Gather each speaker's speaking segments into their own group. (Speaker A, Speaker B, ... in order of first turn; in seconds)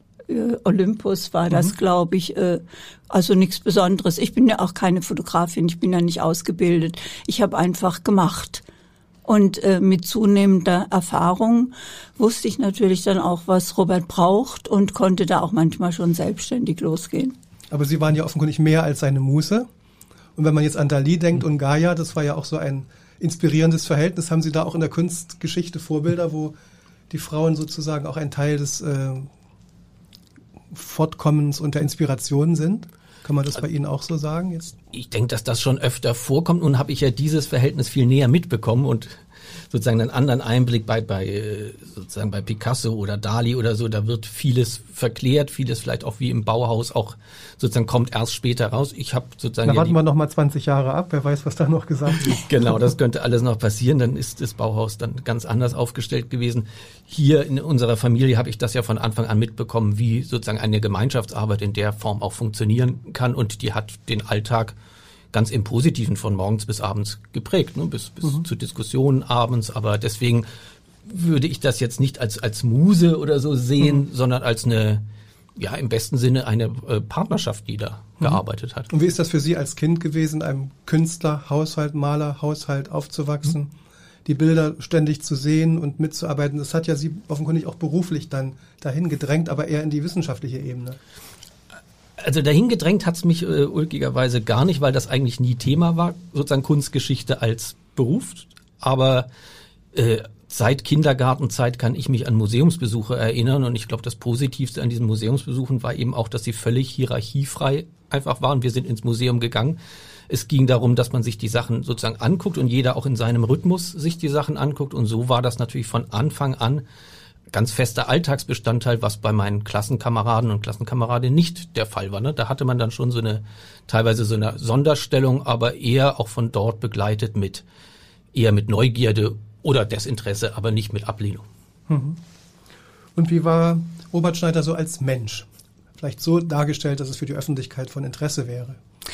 Speaker A: 0.3-8.7, 9.2-17.4
Speaker B: 17.7-19.7, 20.4-26.6, 27.1-29.3, 30.7-34.8, 49.6-52.3, 78.2-83.7, 84.2-91.0, 131.9-132.2, 133.2-138.8
Speaker C: 34.9-39.1, 39.7-50.0, 52.2-64.8, 65.3-70.5, 71.1-75.0, 75.6-78.9, 92.2-99.3, 99.9-116.8, 117.5-127.6, 128.3-131.4